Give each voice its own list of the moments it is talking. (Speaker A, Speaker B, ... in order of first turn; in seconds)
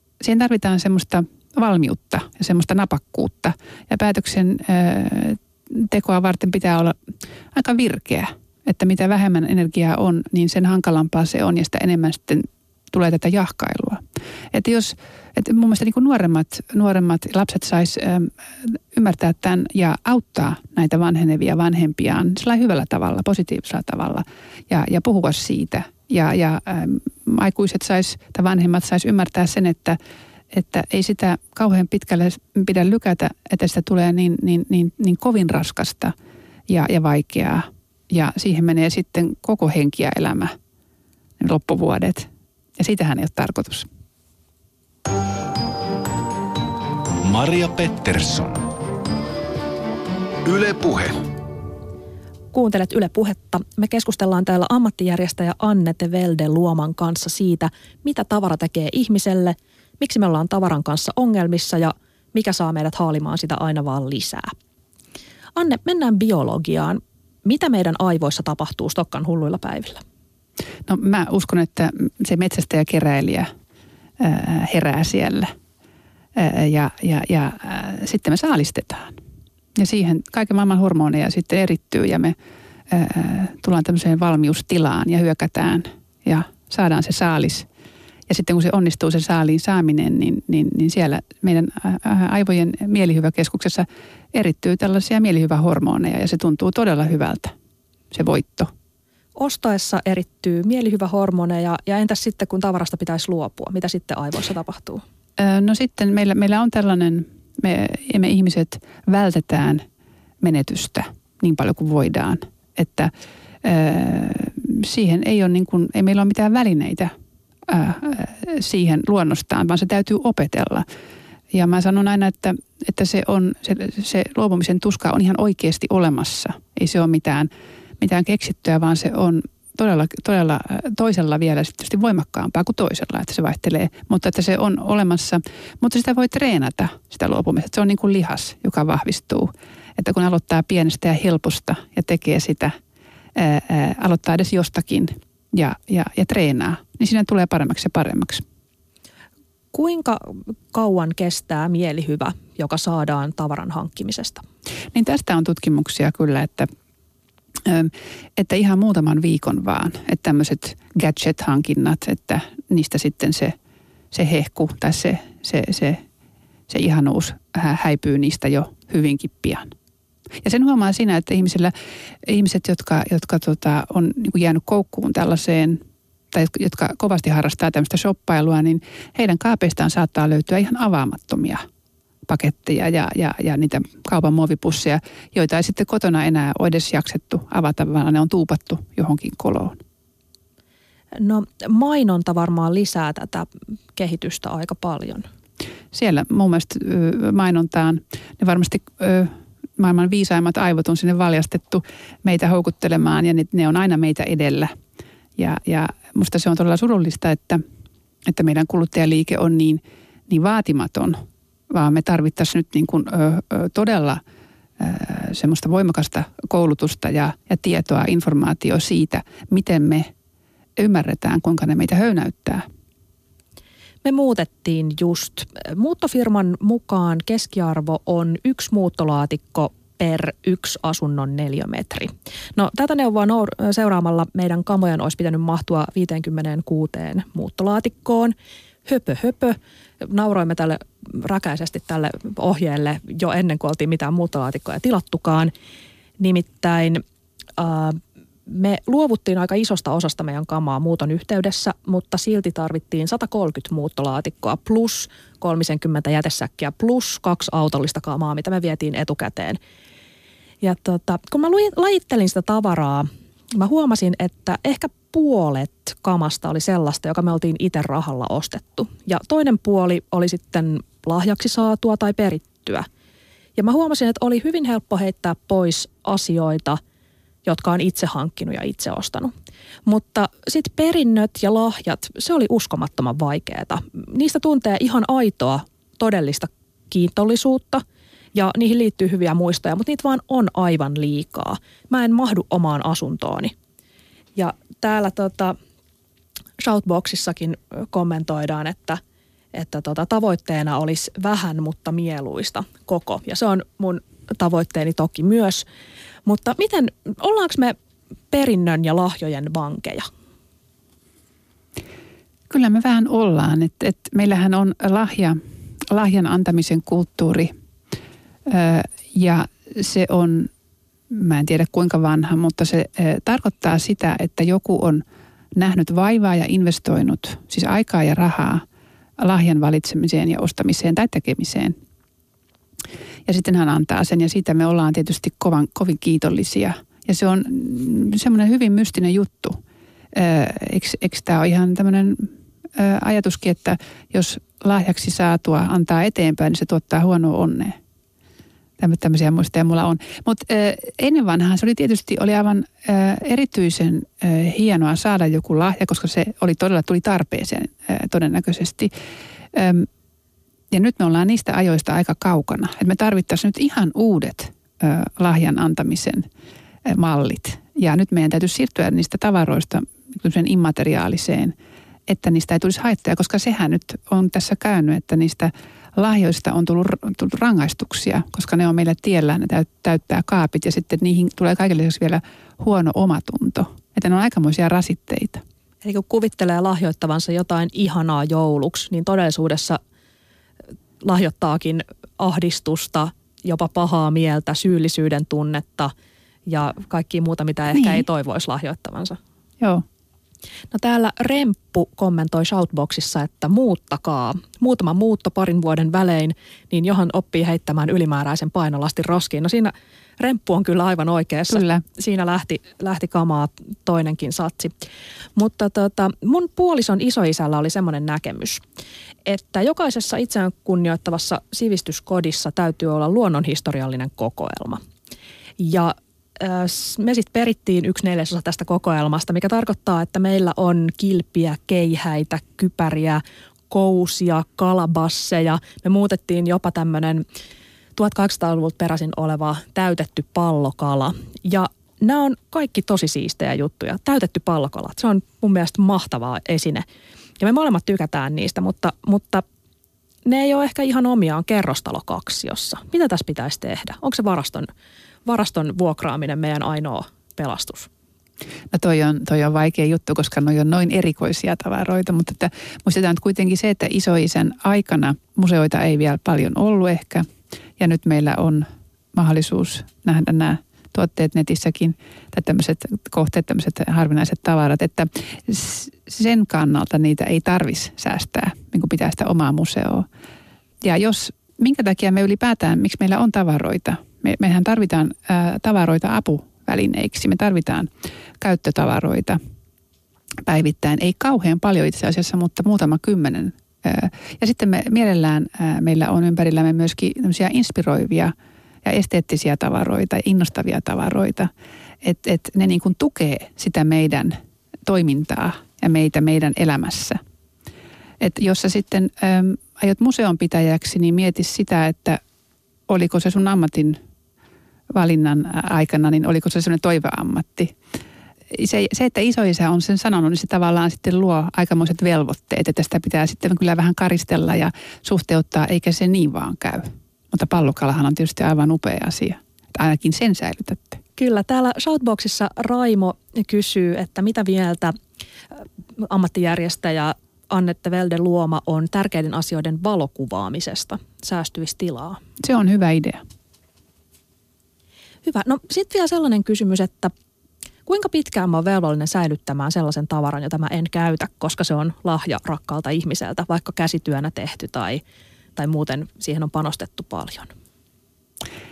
Speaker A: 0.2-7.0, 7.5-30.0, 30.5-36.1, 36.7-40.5, 41.4-43.9, 70.9-73.5, 74.2-75.5, 76.3-79.1, 79.8-82.3, 82.9-87.7, 88.3-97.5, 98.1-98.7, 105.4-109.8, 110.4-113.1, 113.6-117.1, 117.7-120.8, 121.5-142.7, 143.3-148.4, 154.9-156.7, 157.6-163.5, 164.1-166.0, 166.7-169.7, 170.4-171.7, 172.2-175.8, 176.3-181.6, 182.3-189.8, 195.9-204.7, 205.4-207.6, 208.2-211.2, 211.7-214.2, 214.8-220.1, 220.8-222.6, 312.5-315.4, 315.9-317.5, 318.5-320.5, 321.1-325.0, 325.6-328.6, 329.2-331.8, 333.2-339.6, 340.1-347.8, 348.8-358.9, 359.5-359.9, 360.7-366.3, 366.8-371.5, 372.1-385.4, 397.7-398.0, 411.5-411.8, 458.7-467.2, 467.8-480.1, 480.8-489.4, 490.4-498.3, 498.8-501.5, 502.0-507.2, 508.2-512.2, 512.9-514.0, 514.9-517.7, 518.5-531.0, 542.4-543.2
Speaker B: 47.2-48.7, 50.4-51.2
Speaker C: 52.5-64.5, 65.5-70.0, 99.3-105.0, 149.7-154.4, 191.2-195.2, 224.0-238.3, 238.8-245.5, 246.2-247.0, 247.6-259.6, 260.6-272.9, 273.6-276.8, 277.4-279.3, 279.9-287.8, 288.3-293.5, 294.4-295.5, 296.6-299.0, 299.5-305.6, 306.2-307.8, 308.3-310.1, 385.8-389.8, 391.0-395.9, 396.5-399.2, 400.7-414.7, 415.4-418.6, 419.2-424.8, 425.6-437.2, 437.9-446.9, 447.4-449.4, 450.2-454.7, 455.2-457.9, 531.2-535.0, 535.5-542.2, 545.2-547.1, 547.9-555.0, 555.5-557.5